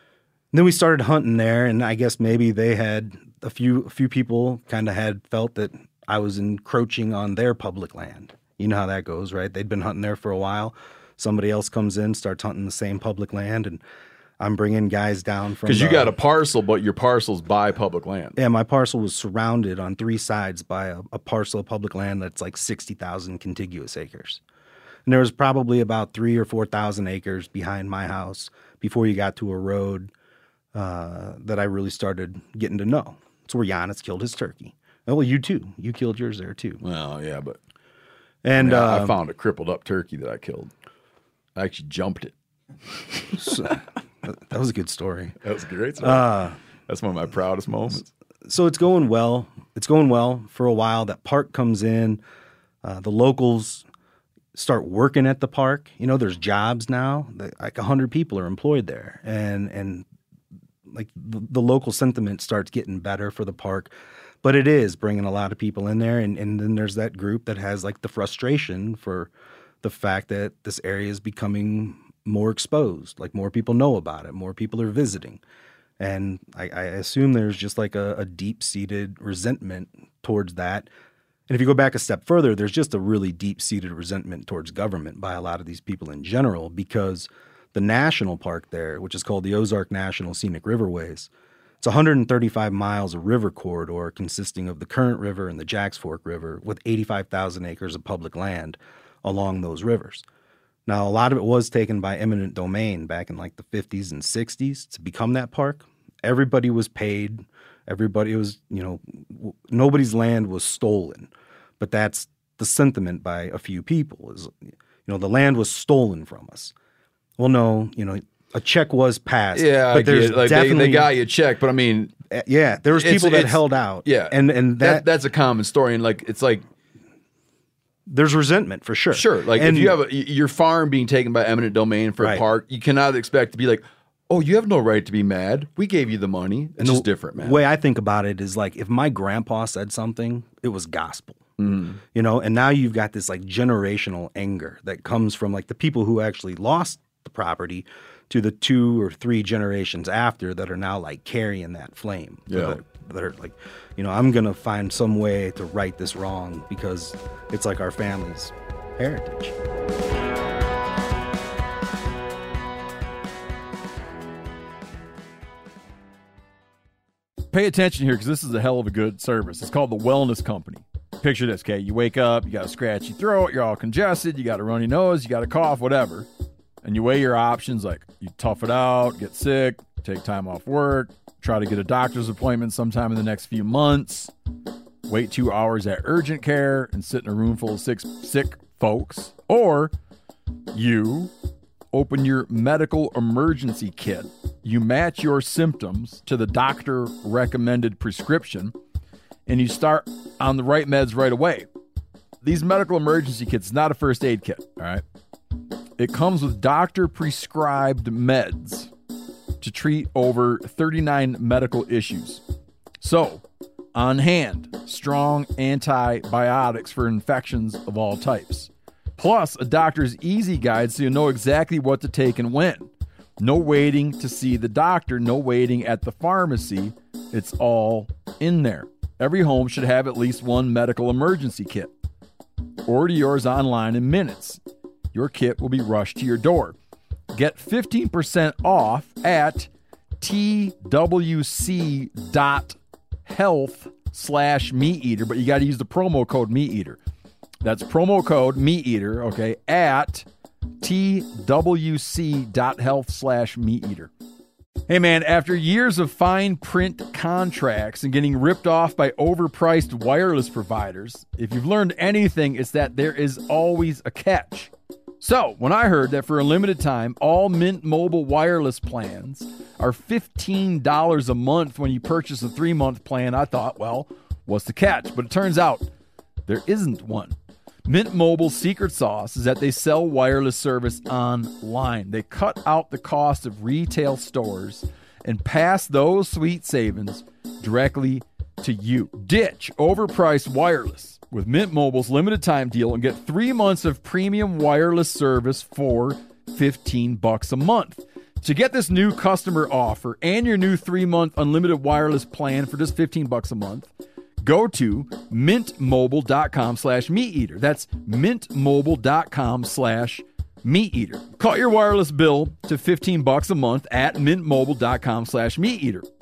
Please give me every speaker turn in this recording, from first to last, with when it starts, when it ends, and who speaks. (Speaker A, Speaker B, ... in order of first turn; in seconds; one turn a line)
Speaker A: 0.5-13.8
Speaker A: 14.4-16.1
Speaker B: 15.7-18.4
Speaker A: 18.4-24.4
Speaker A: 25.1-30.1
Speaker A: 30.7-36.8
Speaker B: 36.8-37.6
Speaker A: 38.4-39.2
Speaker B: 38.6-40.7
Speaker B: 41.6-42.3
Speaker A: 43.4-45.3
Speaker B: 45.4-46.3
Speaker A: 46.0-46.6
Speaker B: 46.9-48.1
Speaker A: 48.5-52.2
Speaker A: 52.8-53.9
Speaker A: 54.5-60.1
Speaker A: 60.9-63.9
Speaker A: 64.4-69.3
Speaker A: 69.8-75.4
Speaker A: 76.0-80.9
Speaker A: 81.5-91.3
Speaker A: 91.8-100.2
Speaker A: 100.9-116.7
Speaker A: 117.4-121.1
Speaker B: 119.5-122.1
Speaker A: 122.3-125.0
Speaker B: 122.9-126.7
Speaker A: 128.1-130.0
Speaker B: 129.1-137.6
Speaker A: 132.2-132.4
Speaker A: 136.8-141.4
Speaker B: 141.6-142.0
Speaker A: 142.1-159.5
Speaker B: 152.5-152.8
Speaker B: 167.5-176.3
Speaker B: 176.8-184.3
Speaker B: 185.1-189.9
Speaker B: 190.7-191.3
Speaker B: 191.9-198.7
Speaker B: 199.5-201.7
Speaker B: 202.4-205.0
Speaker B: 206.0-208.9
Speaker B: 209.6-212.4
Speaker B: 213.0-213.4
Speaker B: 213.9-222.9
Speaker B: 223.4-231.9
Speaker B: 232.9-234.6
Speaker B: 235.1-236.8
Speaker B: 237.3-239.7
Speaker B: 240.2-247.0
Speaker B: 247.6-250.3
Speaker B: 250.8-254.1
Speaker B: 254.9-275.9
Speaker B: 276.5-277.4
Speaker B: 277.9-303.9
Speaker B: 304.4-316.1